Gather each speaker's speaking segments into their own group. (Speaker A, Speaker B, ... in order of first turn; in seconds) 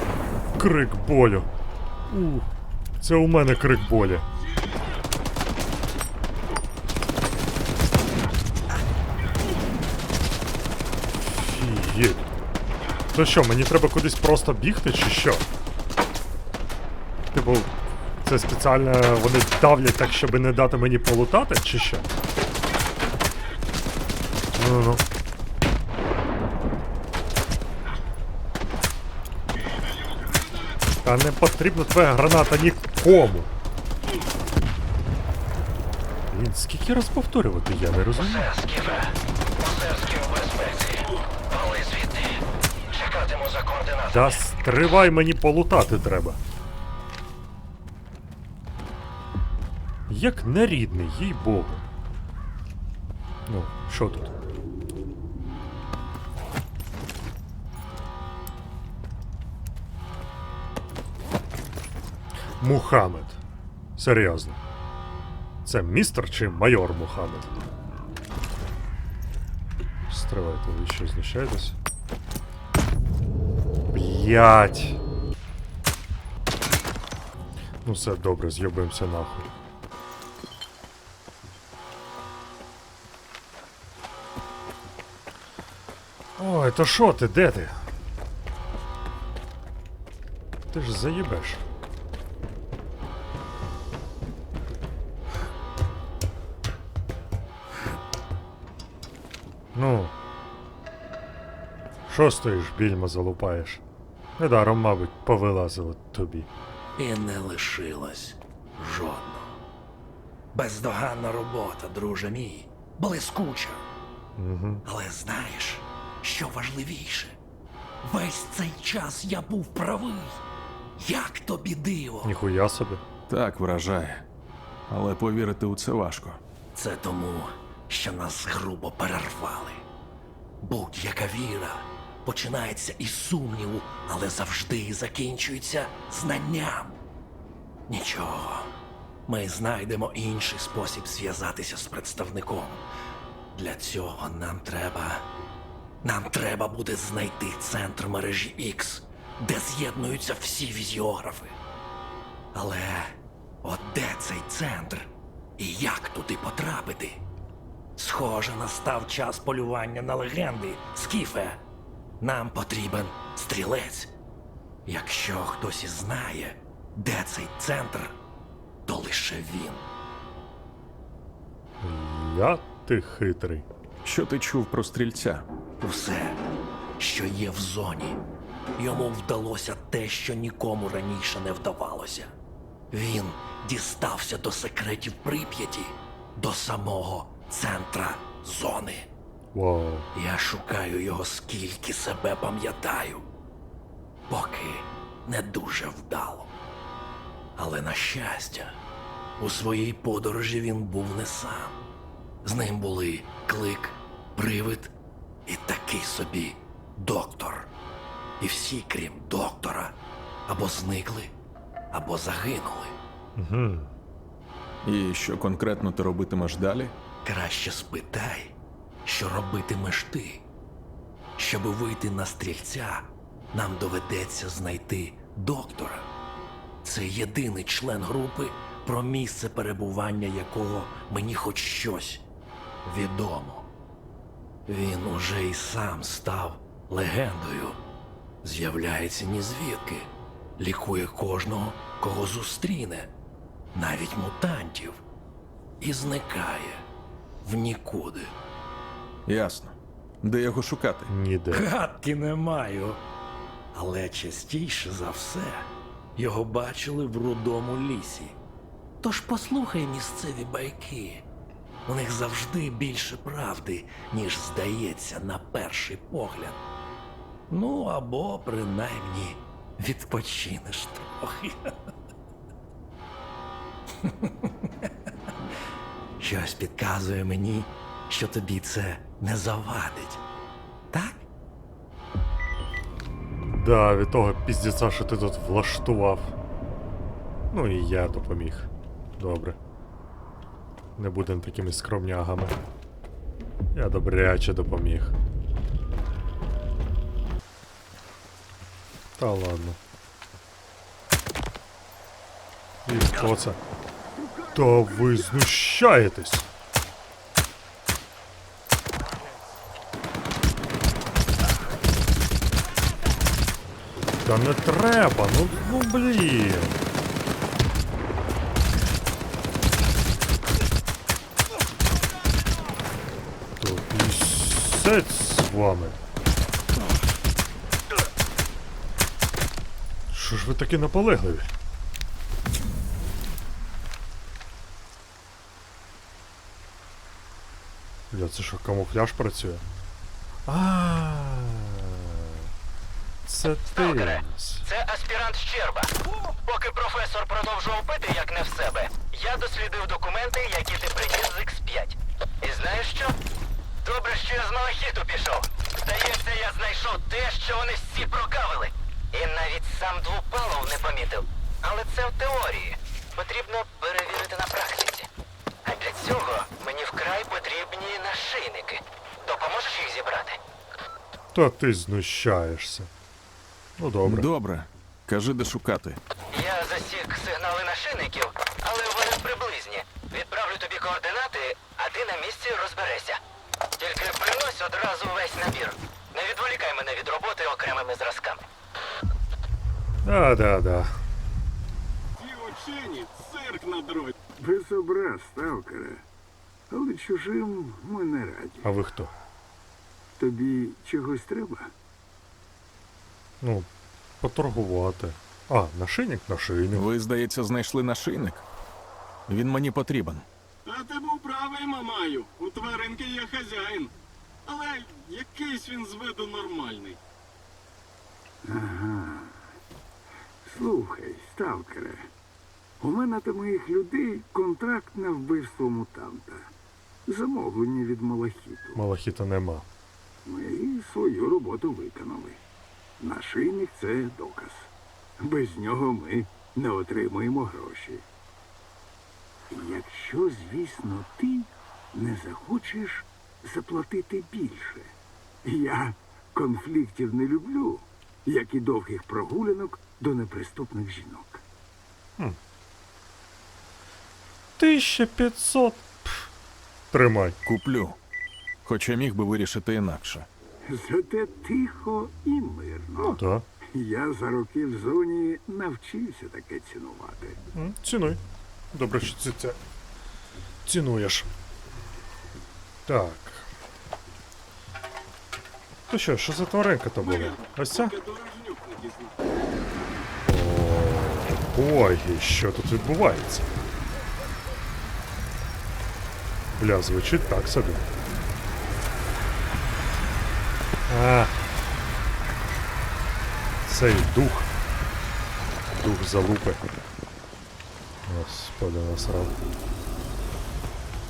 Speaker A: 0.6-1.5, 2.1-2.5, 3.0-4.3, 11.2-12.3, 13.1-15.4, 17.3-17.7, 18.2-22.1, 24.5-25.0, 31.0-33.5, 36.3-38.5, 44.1-46.4, 50.1-51.8, 53.5-54.3, 62.6-63.4, 64.0-64.6, 65.6-67.7, 70.1-71.8, 73.9-75.0, 77.8-79.5, 86.4-87.8, 90.7-91.6, 99.7-100.1, 102.1-103.8, 104.4-106.5, 114.4-114.8, 122.2-123.0, 171.8-173.7, 189.5-190.1, 213.3-213.9, 251.1-251.7, 283.5-286.3, 287.5-289.6, 291.0-292.5, 293.7-295.1, 299.2-299.8, 302.9-303.6, 304.5-306.5, 314.2-316.8, 323.6-326.0, 330.1-331.5, 338.1-339.6, 340.5-342.4, 343.2-344.6, 371.3-372.9, 373.8-374.3, 390.0-390.9, 398.6-399.1, 403.4-403.7, 404.2-406.9, 428.8-429.7, 454.6-456.3, 456.9-457.4, 463.0-463.4, 467.5-468.2, 468.7-469.6, 470.6-471.3, 472.9-473.5, 475.9-477.9, 480.3-483.5, 486.6-487.9, 490.9-491.4, 493.6-494.5, 495.7-496.6, 498.1-499.3
Speaker B: 38.3-44.4, 343.7-353.2, 353.8-365.1, 365.6-370.4, 376.3-383.2, 383.8-388.4
Speaker C: 107.0-109.6, 110.5-113.8, 114.8-117.3, 118.0-120.4, 121.0-122.4, 126.7-129.8, 130.6-137.0, 137.9-138.7, 139.3-142.8, 143.5-145.2, 146.0-151.6, 152.5-157.2, 158.0-161.6, 162.2-164.1, 164.8-168.1, 168.8-169.8, 175.8-176.4, 177.0-178.2, 178.8-182.3, 182.9-189.1, 190.1-193.2, 194.3-196.5, 197.6-198.8, 199.4-201.8, 202.4-204.9, 205.4-207.7, 208.4-209.9, 210.5-211.3, 211.9-212.9, 217.2-220.4, 221.4-226.1, 226.8-232.2, 232.8-233.7, 234.7-237.8, 238.4-243.1, 243.7-245.0, 245.8-246.8, 247.4-248.3, 251.5-253.0, 253.7-258.4, 259.0-261.2, 261.9-266.6, 267.5-271.7, 274.0-274.9, 276.2-280.2, 280.9-281.2
Speaker D: 123.3-124.2, 124.9-126.4, 174.0-175.4, 214.8-216.9, 249.2-251.1, 374.1-376.0, 406.7-408.4, 409.3-410.2, 457.4-458.0, 458.6-460.3
Speaker E: 304.2-305.2, 394.4-396.0, 396.7-398.6, 400.2-401.7, 418.4-419.4, 420.4-422.1, 422.8-426.5, 427.1-428.8, 430.2-432.4, 433.0-438.1, 439.5-451.4, 460.7-463.2, 463.7-467.4
Speaker F: 392.2-394.2, 410.6-413.9, 414.4-417.0, 477.0-479.2